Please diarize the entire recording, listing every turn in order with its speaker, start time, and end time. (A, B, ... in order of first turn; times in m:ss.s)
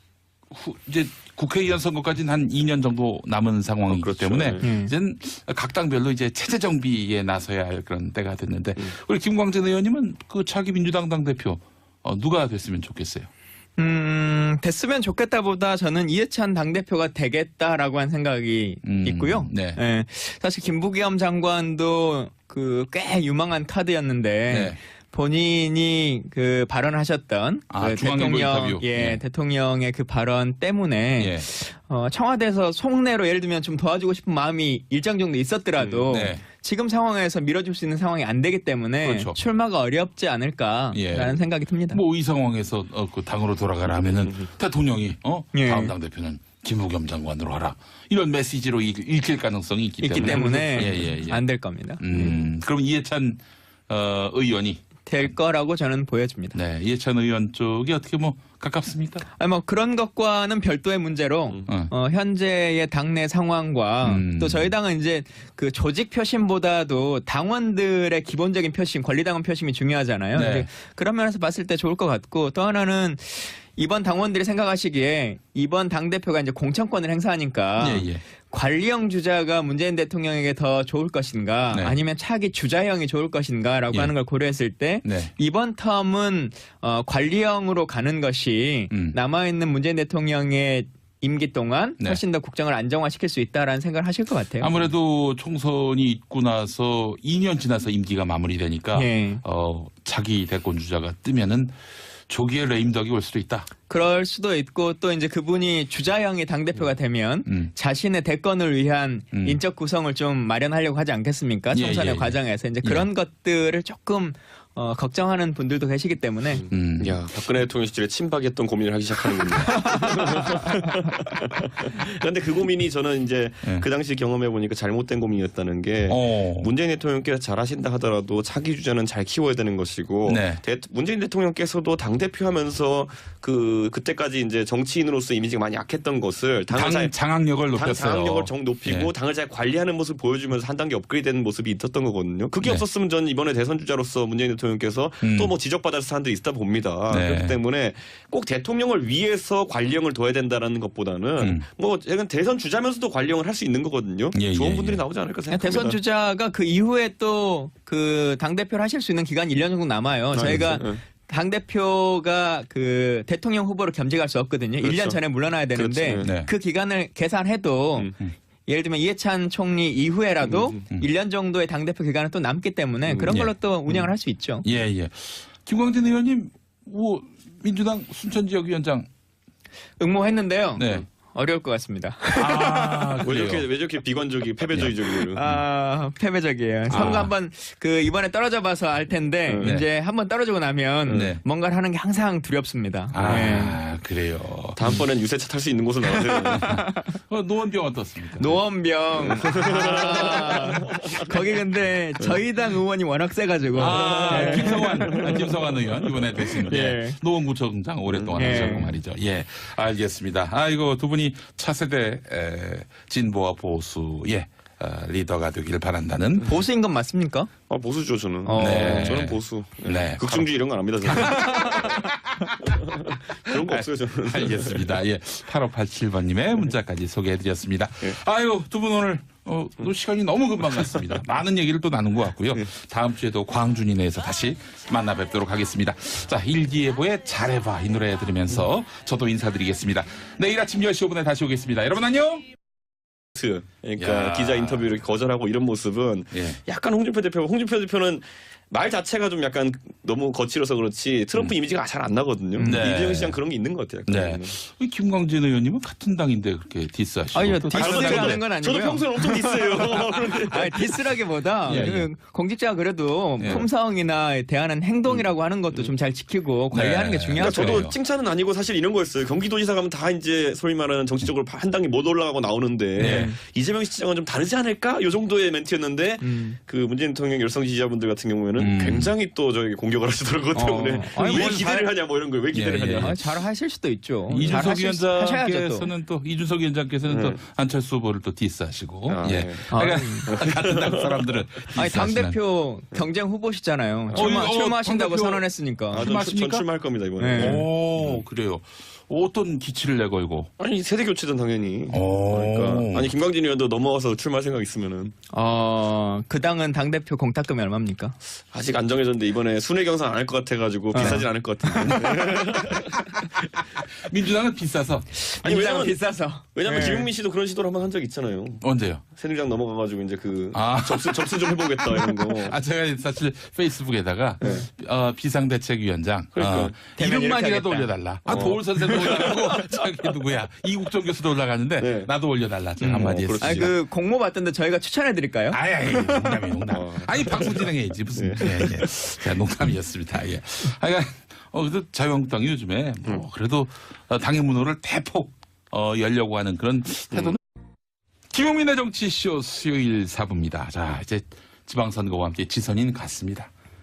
0:00.5-0:13.3 A
0:03.9-0:04.6 B
0:04.6-0:04.9 C
0:13.8-0:42.0 C
0:18.8-0:19.8 A
0:24.5-0:24.8 A
0:27.7-0:29.2 A
0:31.2-0:31.5 A
0:35.8-0:36.2 B
0:36.1-0:36.4 A
0:39.0-0:39.4 A
0:40.9-0:41.4 A
0:41.9-0:51.4 A
0:45.5-0:45.9 C
0:50.0-0:52.3 C
0:52.0-0:54.8 A
0:55.1-0:56.6 C
0:56.5-0:59.3 A
0:59.4-1:34.7 C
1:04.0-1:04.7 A
1:10.4-1:10.7 A
1:17.8-1:18.2 A
1:25.0-1:25.3 A
1:28.9-1:29.2 A
1:34.6-1:41.8 A
1:39.0-1:39.4 C
1:42.3-1:43.7 A
1:43.9-1:56.7 C
1:47.5-1:47.7 A
1:49.3-1:49.6 A
1:51.7-1:53.1 A
1:56.5-2:17.1 B
1:56.7-1:57.2 A
1:59.7-2:00.5 C
2:06.1-2:06.7 A
2:10.3-2:10.6 A
2:16.7-2:19.1 A
2:17.8-2:36.0 B
2:25.2-2:25.5 A
2:27.1-2:27.6 A
2:31.4-2:31.7 A
2:34.4-2:35.0 A
2:35.5-2:48.1 C
2:40.3-2:41.0 B
2:44.8-2:45.2 B
2:45.7-2:46.3 B
2:46.2-2:46.5 A
2:48.7-2:54.6 C
2:50.4-2:50.8 B
2:54.6-2:59.1 A
3:00.0-3:03.1 C
3:00.8-3:01.1 A
3:02.4-3:03.7 A
3:03.2-3:05.4 B
3:04.7-3:05.6 A
3:05.2-3:13.8 C
3:06.9-3:07.3 A
3:06.9-3:07.2 B
3:09.5-3:09.7 B
3:11.1-3:11.4 A
3:13.1-3:15.0 A
3:13.2-3:13.5 B
3:14.8-3:16.6 B
3:16.4-3:17.2 C
3:16.5-3:18.6 A
3:18.4-3:25.3 C
3:19.2-3:21.5 B
3:23.8-3:36.5 A
3:23.8-3:26.8 B
3:26.7-3:27.2 C
3:28.1-3:28.9 B
3:28.4-3:29.0 C
3:36.4-3:37.5 C
3:37.7-3:42.1 B
3:38.4-3:39.3 C
3:38.6-3:40.5 A
3:41.1-3:41.8 A
3:41.2-3:42.0 C
3:42.6-3:44.9 B
3:43.5-4:02.4 A
4:03.4-4:14.6 B
4:04.0-4:04.9 A
4:06.3-4:06.6 A
4:12.6-4:13.0 C
4:12.6-4:13.4 A
4:14.1-4:18.4 A
4:17.4-4:27.8 C
4:17.7-4:21.1 B
4:21.7-4:22.1 A
4:23.4-4:23.6 A
4:25.1-4:25.9 B
4:26.7-4:27.9 A
4:27.4-4:43.2 B
4:33.0-4:33.4 C
4:33.0-4:33.3 A
4:36.2-4:36.6 C
4:38.6-4:39.1 A
4:40.5-4:41.9 C
4:41.2-4:41.6 A
4:42.5-4:43.2 A
4:42.8-4:45.9 C
4:44.3-4:52.4 A
4:47.1-4:47.4 B
4:49.1-4:49.7 B
4:49.7-4:50.3 C
4:50.3-4:51.2 B
4:51.8-4:56.1 C
4:54.1-4:54.4 B
4:54.1-4:56.6 A
4:55.9-4:58.2 B
4:57.2-4:57.7 C
4:57.3-5:00.5 A
5:00.6-5:05.1 B
5:01.9-5:03.1 A
5:05.3-5:08.2 C
5:08.5-5:13.3 B
5:10.9-5:12.0 C
5:11.0-5:11.3 A
5:11.8-5:12.6 A
5:13.2-5:15.1 A
5:15.1-5:17.1 C
5:15.4-5:16.0 B
5:16.5-5:22.6 B
5:18.6-5:19.0 A
5:20.5-5:33.7 A
5:26.4-5:26.8 B
5:27.0-5:28.6 C
5:28.3-5:29.8 B
5:31.8-5:32.1 B
5:32.8-5:33.7 B
5:32.9-5:36.3 C
5:35.5-5:47.4 A
5:36.7-5:38.7 B
5:48.3-5:53.5 A